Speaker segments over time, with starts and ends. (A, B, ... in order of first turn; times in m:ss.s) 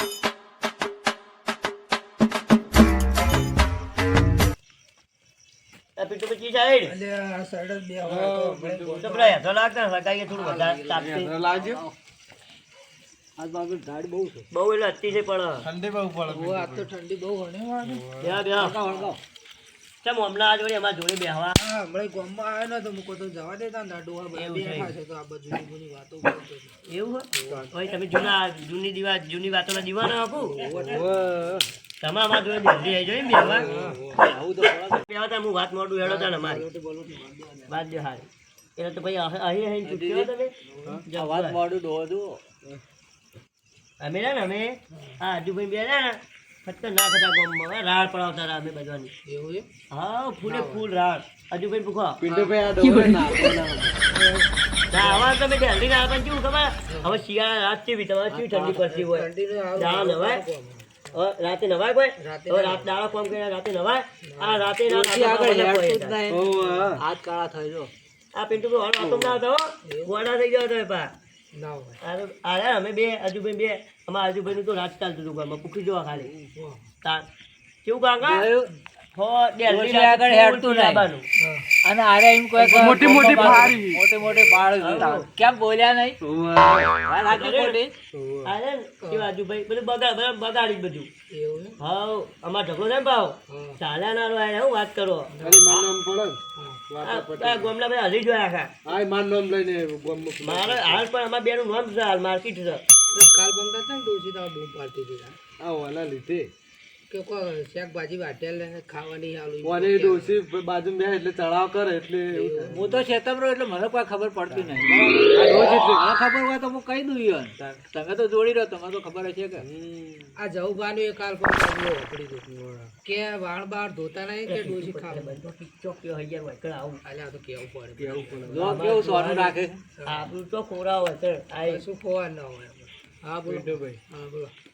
0:06.0-0:06.9 A
0:06.9-0:09.3 B
0:08.0-0:09.2 C
0:09.0-0:11.3 A
0:10.4-0:11.9 D
0:10.9-0:11.8 C
0:13.4-0:14.5 D
0:14.5-0:15.6 A
0:15.6-0:16.9 C
0:16.3-0:18.0 B
0:17.8-0:18.4 C
0:18.2-0:18.8 A
0:18.6-0:19.2 D
0:20.0-0:21.6 A
0:21.6-0:26.8 B
0:24.3-0:24.9 A
0:26.9-0:30.6 A
0:27.3-0:27.7 B
0:30.3-0:31.4 B
0:30.8-0:31.6 C
0:32.0-0:33.7 A
0:33.3-0:34.2 C
0:33.4-0:34.0 B
0:34.1-0:35.0 D
0:34.9-0:36.6 A
0:36.1-0:37.7 B
0:37.7-0:40.5 A
0:39.8-0:40.3 D
0:41.0-0:41.6 A
0:41.1-0:42.4 D
0:44.0-0:49.1 A
0:44.9-0:45.2 B
0:49.2-0:49.7 B
0:49.9-0:52.2 A
0:50.4-0:50.8 B
0:52.2-0:54.1 C
0:52.3-0:52.5 B
0:54.1-0:55.3 B
0:54.9-1:00.4 A
0:56.9-0:57.2 B
0:58.3-0:59.0 D
0:59.0-1:01.0 B
1:01.1-1:06.2 A
1:02.2-1:02.9 B
1:04.2-1:04.7 B
1:04.9-1:07.9 D
1:06.3-1:07.0 C
1:08.3-1:11.1 A
1:09.0-1:09.4 C
1:09.8-1:10.1 B
1:11.5-1:12.0 B
1:12.0-1:16.3 A
1:16.2-1:16.5 C
1:16.5-1:16.8 B
1:17.8-1:18.5 A
1:18.2-1:18.7 D
1:19.1-1:21.2 A
1:19.6-1:21.1 D
1:21.4-1:21.7 B
1:21.8-1:26.2 D
1:22.6-1:24.0 C
1:24.8-1:25.3 A
1:26.2-1:27.0 C
1:27.0-1:27.9 D
1:27.3-1:27.8 A
1:28.1-1:28.5 C
1:28.4-1:31.1 A
1:29.0-1:29.3 B
1:31.3-1:31.8 B
1:31.8-1:35.3 A
1:33.5-1:33.8 B
1:35.3-1:35.8 B
1:35.4-1:37.7 C
1:37.0-1:38.7 A
1:38.8-1:41.0 C
1:40.4-1:42.8 A
1:43.1-1:45.4 B
1:45.6-1:46.5 C
1:47.1-1:50.4 B
1:49.6-1:52.8 C
1:52.3-1:53.0 B
1:52.7-1:59.6 D
1:54.5-1:56.0 C
1:59.6-2:00.3 C
2:00.4-2:05.4 B
2:02.5-2:02.9 C
2:04.5-2:07.0 A
2:07.0-2:09.1 B
2:08.0-2:08.8 C
2:08.5-2:09.8 D
2:08.6-2:11.8 A
2:10.0-2:10.3 B
2:11.6-2:14.5 B
2:13.5-2:14.0 C